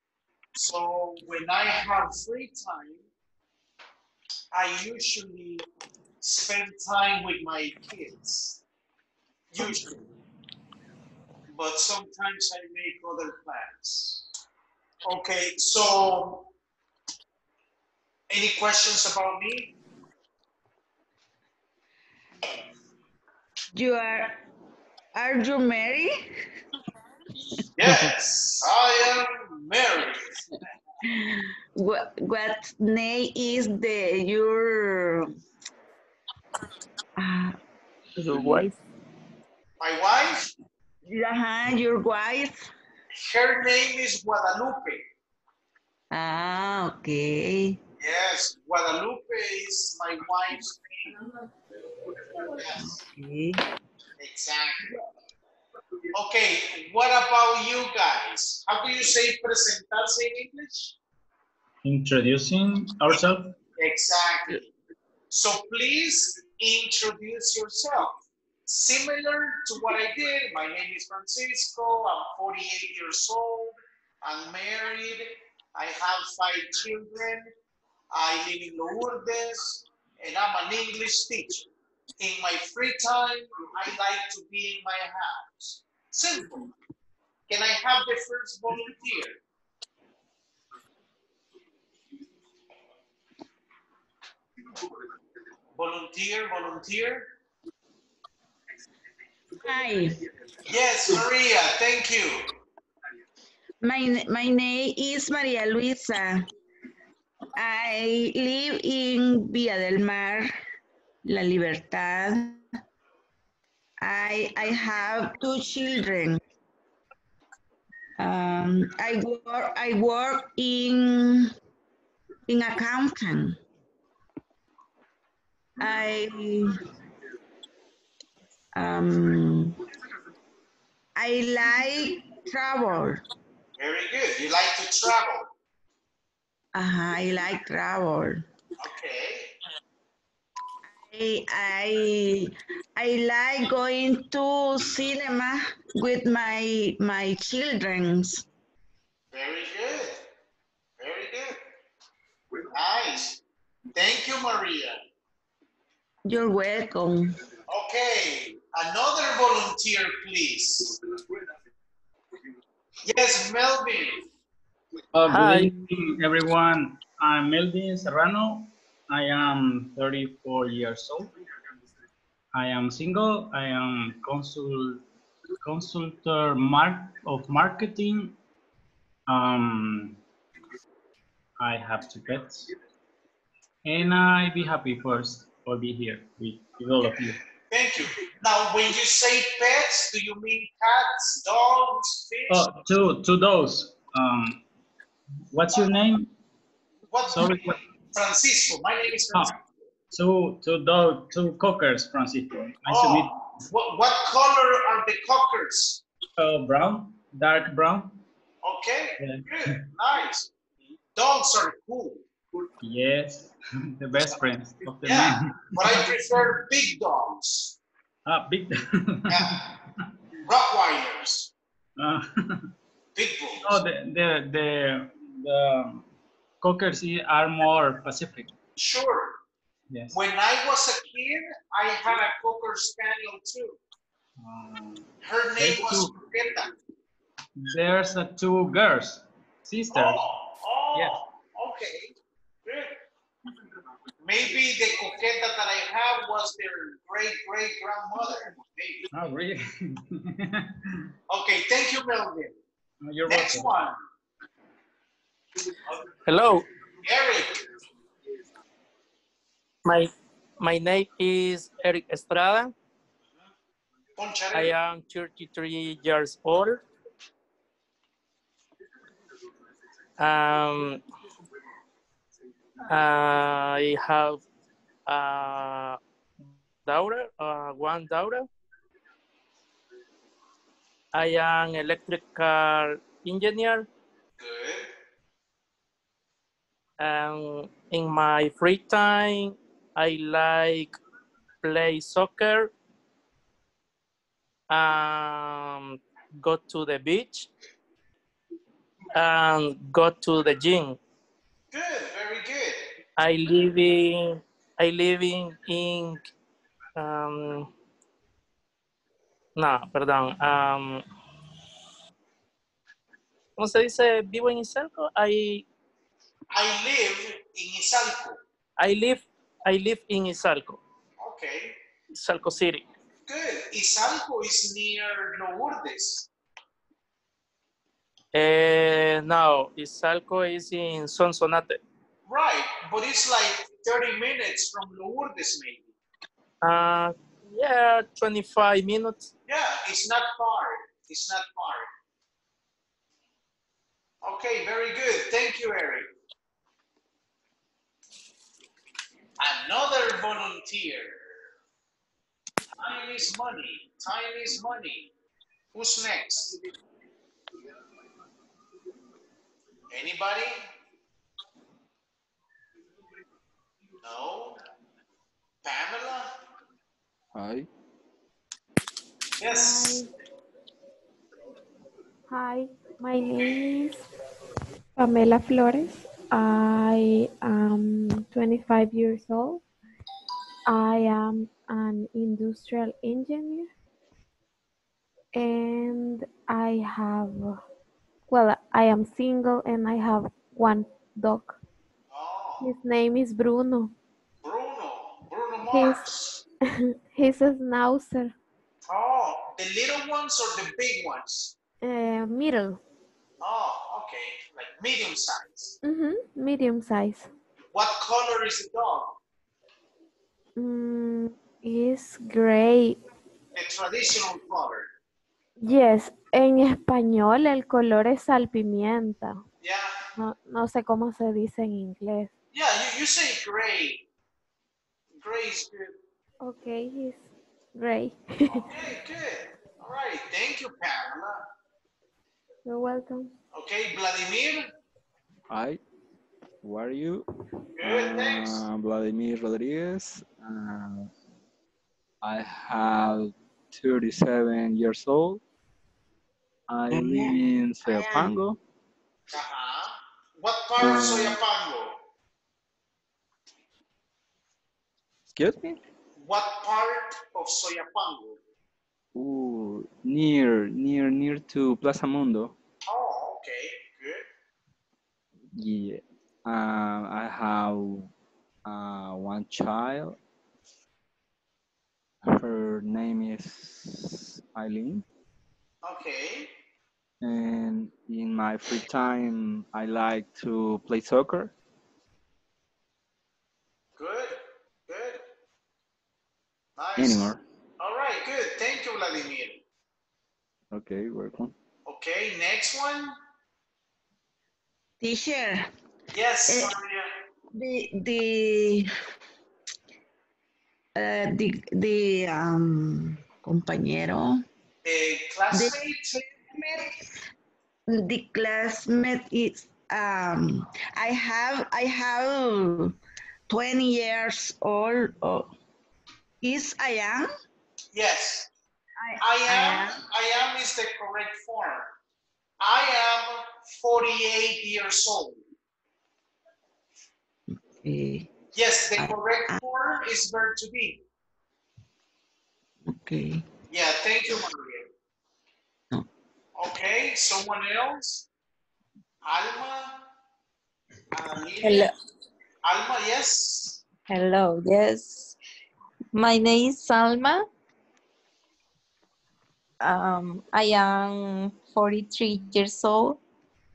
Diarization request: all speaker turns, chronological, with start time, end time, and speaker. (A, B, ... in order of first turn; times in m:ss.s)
0:00.5-0:03.0 A
0:04.5-0:05.6 A
0:06.2-0:08.6 A
0:09.5-0:10.0 A
0:11.5-0:14.2 A
0:15.0-0:16.5 A
0:18.3-0:19.7 A
0:23.7-0:24.3 B
0:25.1-0:26.1 B
0:27.8-0:30.6 A
0:31.0-0:35.3 B
0:37.2-0:37.6 B
0:38.2-0:38.7 C
0:38.3-0:38.7 B
0:39.8-0:40.5 A
0:41.0-0:42.7 B
0:43.2-0:45.0 A
0:46.1-0:47.8 B
0:48.0-0:51.2 A
0:52.4-0:53.0 A
0:53.0-0:53.6 B
0:54.2-0:54.9 A
0:56.1-1:01.0 A
1:01.8-1:03.5 D
1:03.8-1:04.7 A
1:05.3-1:17.5 A
1:18.1-1:26.7 A
1:27.5-1:29.4 A
1:35.7-1:37.3 A
1:39.6-1:40.2 B
1:40.6-1:42.5 A
1:43.8-1:46.5 B
1:47.6-1:50.5 B
1:51.2-1:52.6 B
1:54.0-1:56.4 B
1:58.2-2:01.5 B
2:02.5-2:03.6 B
2:05.8-2:06.8 B
2:08.7-2:09.8 B
2:11.1-2:13.2 B
2:13.8-2:15.5 A
2:16.7-2:18.4 B
2:18.8-2:19.5 A
2:20.9-2:28.4 B
2:29.3-2:30.2 A
2:31.0-2:31.6 A
2:32.7-2:33.4 A
2:33.9-2:35.0 A
2:36.2-2:37.3 B
2:37.7-2:40.9 A
2:43.0-2:44.2 A
2:45.1-2:51.3 D
2:45.3-2:45.7 C
2:52.5-2:55.0 D
2:55.6-2:58.4 D
2:59.3-3:00.2 D
3:01.6-3:02.6 D
3:03.8-3:07.4 D
3:07.2-3:12.7 A
3:12.5-3:14.6 D
3:15.5-3:16.3 D
3:17.1-3:19.6 A
3:17.3-3:17.8 D
3:20.1-3:23.3 D
3:22.9-3:26.0 A
3:26.4-3:28.2 D
3:28.6-3:30.5 A
3:29.2-3:29.8 D
3:31.1-3:32.2 A
3:32.8-3:36.4 D
3:35.0-3:37.8 A
3:38.2-3:39.6 D
3:39.3-3:39.6 A
3:40.4-3:41.5 A
3:42.0-3:42.6 D
3:43.1-3:43.8 A
3:43.6-3:46.1 D
3:46.6-3:48.5 D
3:48.8-3:49.4 A
3:50.1-3:53.8 A
3:54.4-3:56.2 D
3:55.2-3:56.8 A
3:57.6-4:00.2 D
3:59.9-4:03.0 A
4:00.9-4:01.2 D
4:04.2-4:09.1 A
4:09.1-4:10.7 D
4:11.3-4:12.6 A
4:13.0-4:13.7 D
4:13.3-4:14.0 A
4:16.2-4:16.6 C
4:17.0-4:17.6 A
4:19.8-4:22.7 C
4:24.2-4:24.7 A
4:24.5-4:26.8 C
4:30.2-4:31.0 C
4:32.9-4:34.4 C
4:35.1-4:36.0 C
4:36.8-4:38.5 C
4:41.1-4:43.9 C
4:44.4-4:44.9 A
4:47.0-4:51.0 C
4:51.6-4:52.7 C
4:54.7-4:57.5 C
4:59.1-5:01.0 C
5:01.7-5:02.8 A
5:03.2-5:06.2 C
5:07.0-5:07.7 C
5:09.6-5:11.0 C
5:13.6-5:15.6 C
5:16.5-5:18.4 A
5:18.8-5:20.8 C
5:21.2-5:21.8 A
5:22.1-5:22.9 C
5:23.3-5:26.3 A
5:28.3-5:31.8 C
5:32.3-5:35.9 A
5:36.6-5:39.3 C
5:39.5-5:41.9 A
5:44.2-5:46.1 A
5:49.4-5:51.3 A
5:52.8-5:55.1 A
5:55.7-5:56.6 A
5:59.9-6:00.6 A
6:04.0-6:04.6 A
6:05.6-6:06.3 A
6:07.3-6:07.7 E
6:09.4-6:10.0 A
6:09.4-6:10.1 F
6:12.3-6:14.0 F
6:13.2-6:13.8 A
6:15.0-6:19.6 F
6:20.7-6:23.7 F
6:25.3-6:27.6 F
6:28.3-6:31.6 F
6:32.1-6:32.7 A
6:32.6-6:33.9 F
6:34.4-6:36.4 A
6:35.7-6:36.0 F
6:36.6-6:38.3 F
6:38.8-6:41.5 A
6:41.8-6:42.8 F
6:43.4-6:45.7 A
6:45.8-6:47.3 F
6:47.7-6:49.2 A
6:50.6-6:53.0 F
6:53.5-6:54.9 A
6:55.6-6:59.4 F
6:59.6-6:59.9 A
7:00.2-7:02.3 F
7:02.5-7:04.0 A
7:05.2-7:05.9 A
7:06.4-7:08.6 F
7:08.5-7:11.4 A
7:12.6-7:13.3 F
7:13.5-7:14.7 A
7:15.5-7:15.8 E
7:16.6-7:17.2 E
7:17.8-7:18.6 A
7:17.8-7:21.1 E
7:22.2-7:25.4 E
7:26.7-7:28.6 E
7:26.9-7:28.4 B
7:29.3-7:32.0 A
7:30.8-7:31.4 E
7:35.4-7:35.8 E
7:36.2-7:38.4 A
7:39.1-7:42.5 E
7:42.8-7:44.3 A
7:45.5-7:48.1 E
7:48.6-7:50.2 E
7:52.2-7:55.0 E
7:55.8-7:56.5 A
7:57.2-8:01.5 E
8:04.0-8:04.4 A
8:04.9-8:05.2 A
8:06.8-8:09.6 A
8:07.0-8:07.4 E
8:10.7-8:11.5 E
8:11.8-8:13.1 A
8:15.0-8:15.7 B
8:16.1-8:17.1 A
8:16.5-8:16.7 B
8:17.5-8:18.9 B
8:20.9-8:24.4 B
8:24.8-8:26.3 A
8:25.5-8:25.8 B
8:26.4-8:26.9 B
8:27.9-8:33.0 B
8:33.5-8:35.5 B
8:36.4-8:37.3 B
8:37.9-8:38.5 A
8:39.0-8:40.0 B
8:39.2-8:41.9 A
8:42.6-8:45.4 A
8:47.5-8:48.3 B
8:48.5-8:51.0 A
8:49.0-8:49.6 B
8:52.8-8:53.4 B
8:53.7-8:54.9 A
8:56.6-8:58.3 A
8:59.2-9:00.0 A
9:01.1-9:01.9 A
9:01.6-9:01.9 G
9:02.6-9:03.8 A
9:04.1-9:05.4 G
9:06.1-9:07.4 G
9:09.8-9:13.2 G